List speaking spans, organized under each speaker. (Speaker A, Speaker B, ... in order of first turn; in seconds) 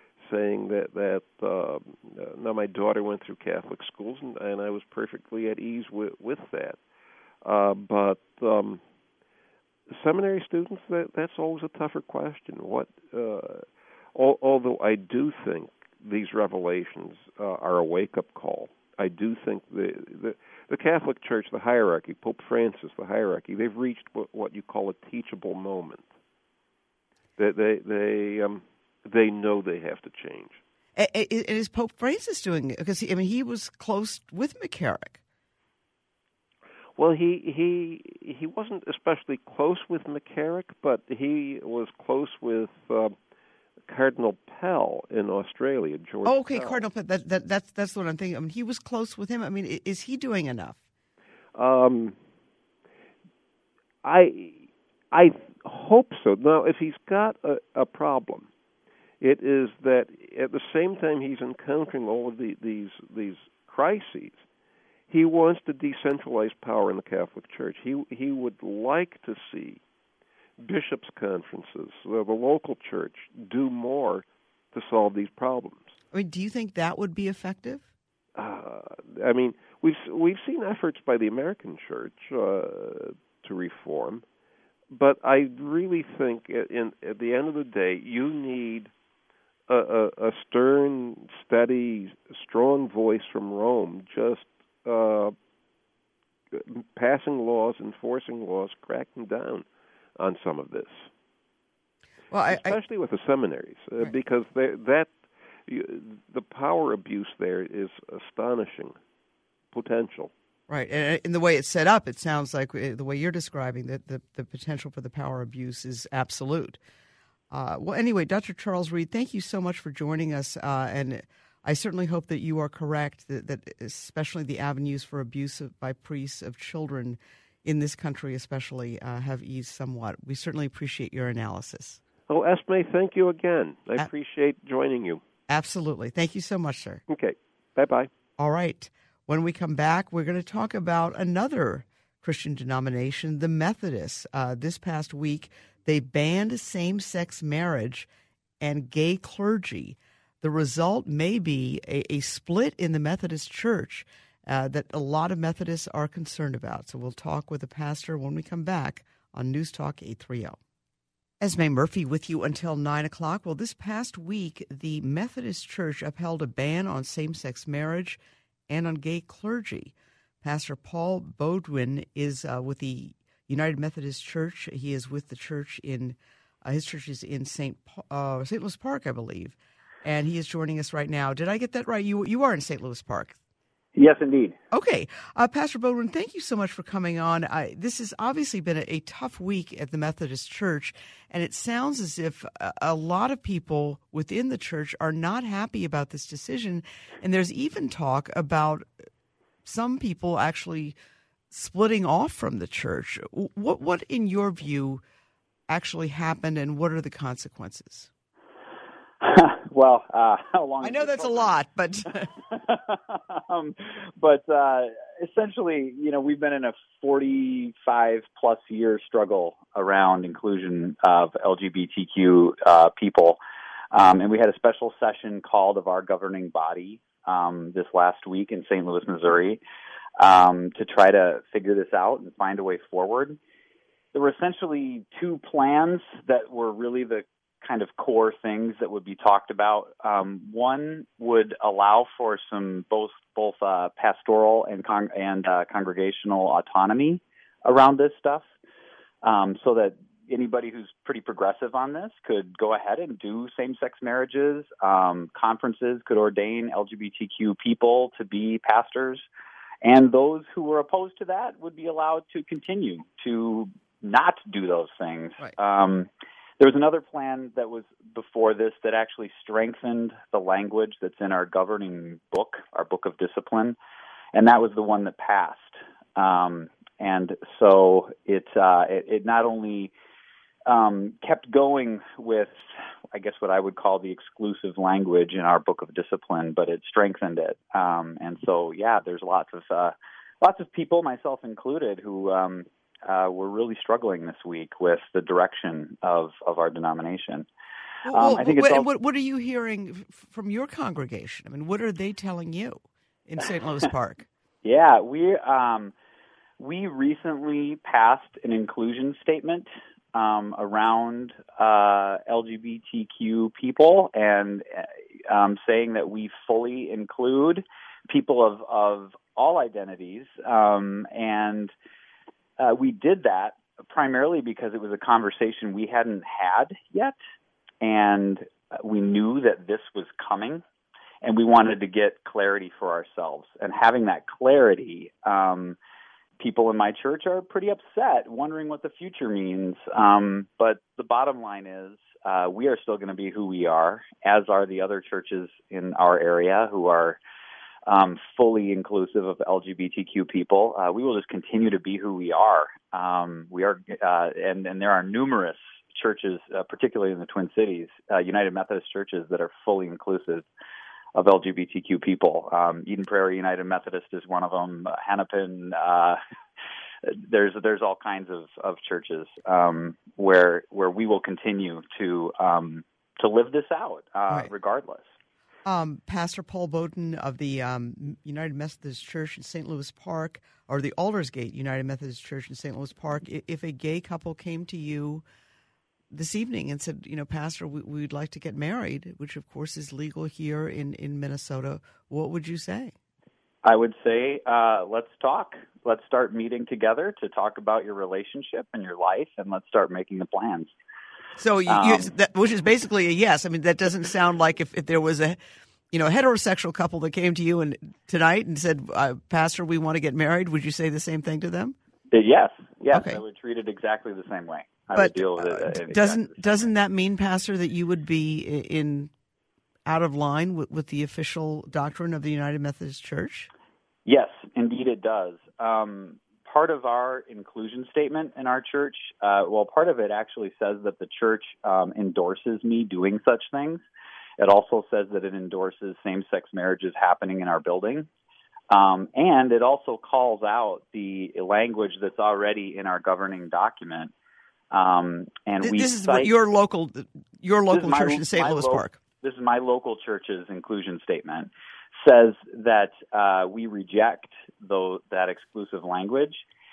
Speaker A: 0.2-6.8, 7.4-8.8, 9.9-26.1, 27.4-30.6, 37.0-43.1, 43.9-46.8, 51.5-52.1, 54.0-58.5, 59.2-64.4, 65.1-69.8, 70.6-75.9, 78.4-84.2, 84.9-88.9, 89.7-95.3, 96.5-99.7, 100.2-101.1, 102.5-105.1, 105.7-109.0, 109.7-110.3, 132.3-135.2, 137.1-138.1
Speaker B: 30.9-35.2, 46.2-50.8, 76.1-77.8, 102.3-102.8, 110.7-116.8, 117.5-132.0, 135.5-137.0, 138.4-148.1, 148.6-160.6, 161.4-183.3, 184.7-198.9, 199.6-200.9, 201.5-205.0, 205.7-208.1, 210.8-212.3, 298.0-304.2, 375.6-385.2, 386.1-392.9, 401.4-405.4, 405.9-411.7, 412.9-413.2, 414.9-419.1, 419.9-423.5, 445.6-449.0
Speaker C: 183.9-184.6, 209.2-211.5, 212.5-223.4, 223.9-229.6, 230.2-233.4, 234.1-248.5, 249.2-259.2, 259.8-266.1, 266.6-273.8, 274.3-279.9, 280.7-297.5, 298.1-298.8, 304.6-305.9, 306.6-321.7, 322.6-327.1, 327.8-330.6, 331.2-335.8, 336.4-347.2, 347.9-360.5, 361.1-366.2, 367.0-375.1, 393.6-400.7, 401.7-402.1, 412.1-416.5, 424.1-433.8, 434.4-438.1, 438.7-444.1, 444.7-446.3, 447.7-456.4